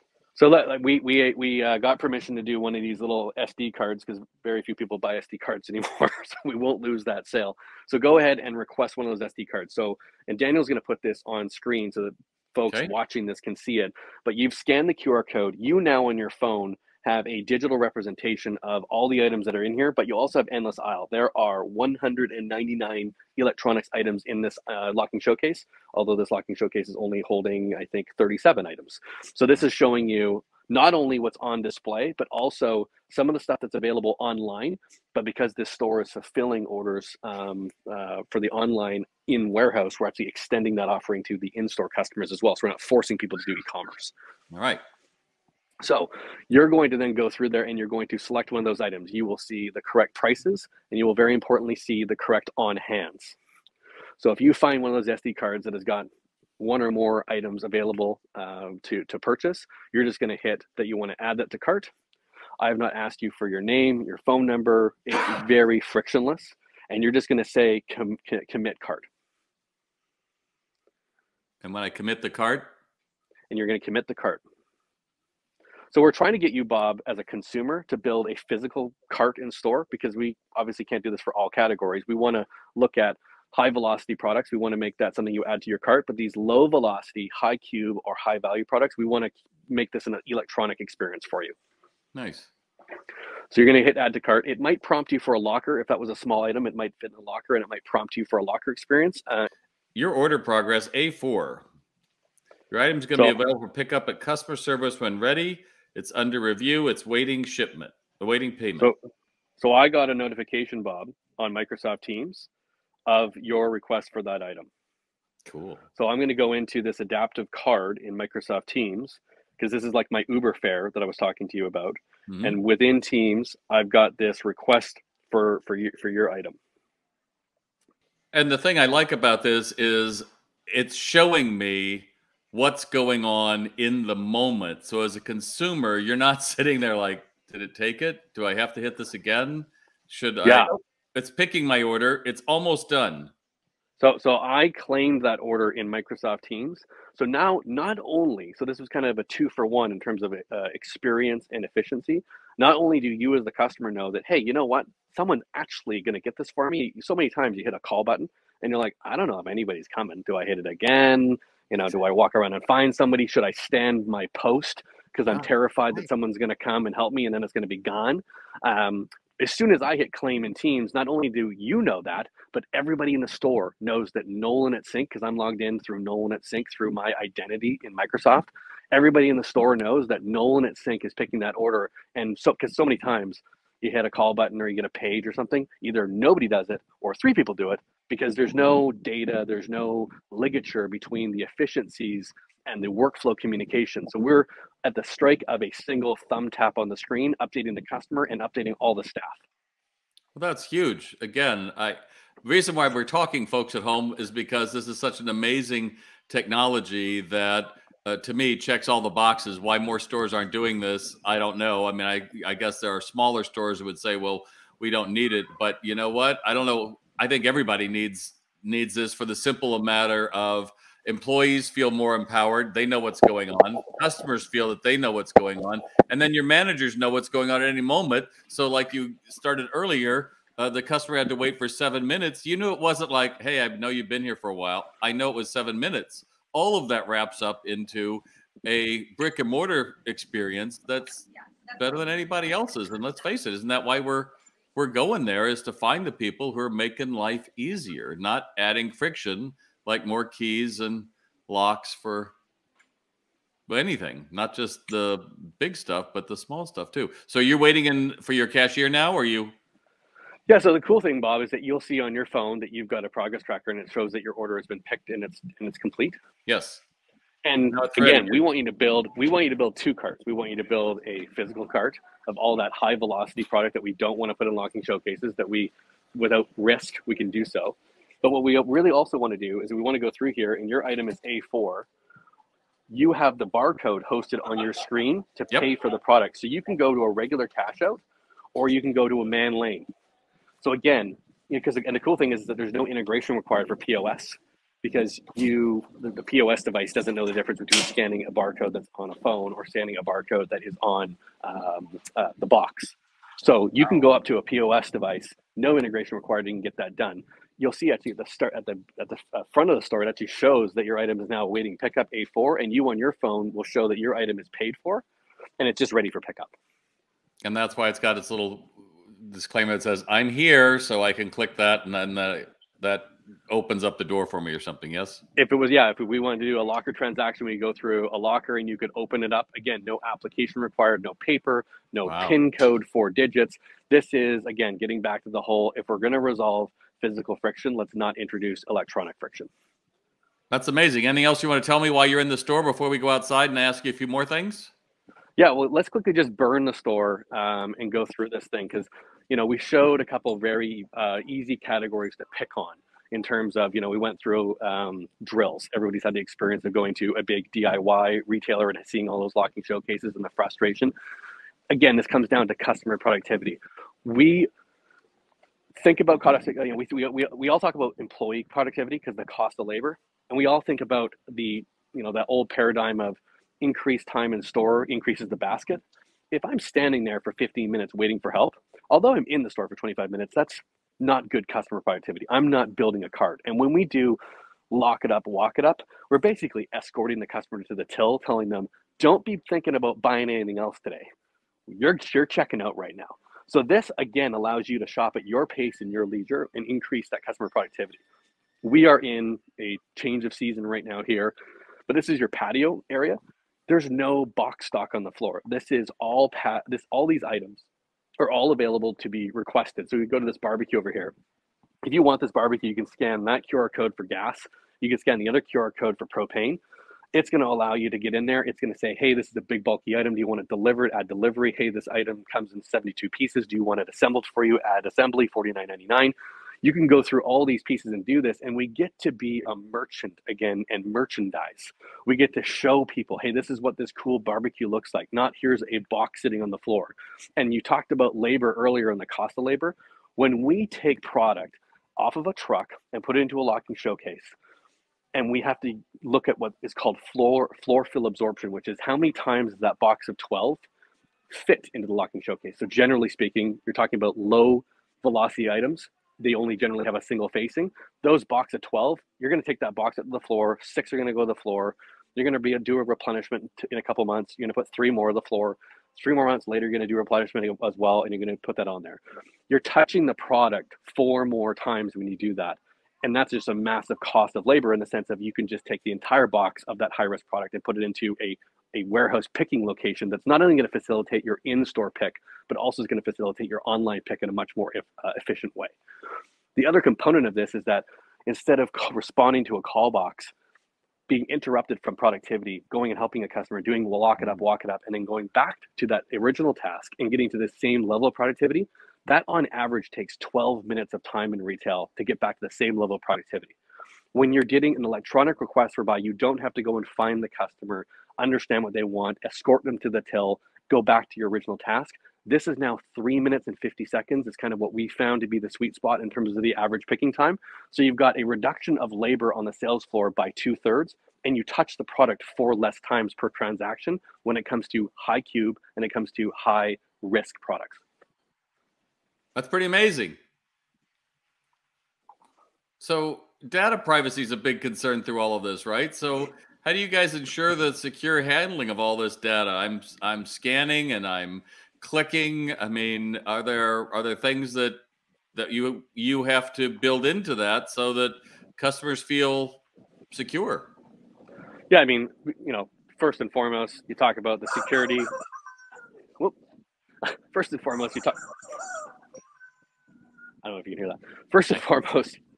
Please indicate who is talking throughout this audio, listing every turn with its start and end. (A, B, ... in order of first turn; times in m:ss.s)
0:00.4-0:44.1 A
0:44.5-0:44.8 B
0:45.8-0:53.4 A
0:54.2-0:56.1 A
0:56.6-1:01.9 A
1:02.6-1:09.1 A
1:11.6-1:12.7 B
1:13.5-1:14.4 A
1:15.9-1:31.6 A
1:32.1-1:32.5 B
1:33.5-1:39.5 A
1:40.0-1:41.6 B
1:42.7-1:48.9 B
1:49.6-1:52.5 A
1:53.1-1:54.7 A
1:55.5-1:55.8 B
1:56.0-2:06.6 A
2:02.3-2:02.6 B
2:08.3-2:23.3 B
2:20.4-2:20.7 A
2:24.0-3:19.4 A
3:20.4-4:12.3 B
4:13.7-4:19.6 B
4:20.5-4:26.2 A
4:26.5-4:26.8 B
4:27.4-4:41.9 A
4:27.7-4:28.4 B
4:42.9-4:48.0 A
4:48.6-4:49.9 A
4:50.6-5:15.0 A
5:15.6-5:16.5 A
5:17.4-5:25.2 B
5:25.4-5:39.5 A
5:32.1-5:32.4 B
5:40.5-5:44.7 B
5:45.4-6:00.9 A
6:01.7-6:04.5 A
6:05.8-6:24.2 A
6:24.7-6:31.1 A
6:31.7-6:38.0 A
6:38.6-6:41.4 A
6:41.9-6:47.6 A
6:48.2-6:51.1 A
6:51.8-6:56.6 A
6:57.1-7:24.3 A
7:25.1-7:30.6 A
7:31.3-8:05.7 A
8:06.6-8:10.3 A
8:11.1-8:23.6 A
8:24.1-8:47.8 A
8:49.4-8:50.2 B
8:52.8-9:04.8 B
9:05.3-9:10.7 B
9:11.7-9:15.1 A
9:17.3-9:18.2 A
9:20.4-9:22.2 A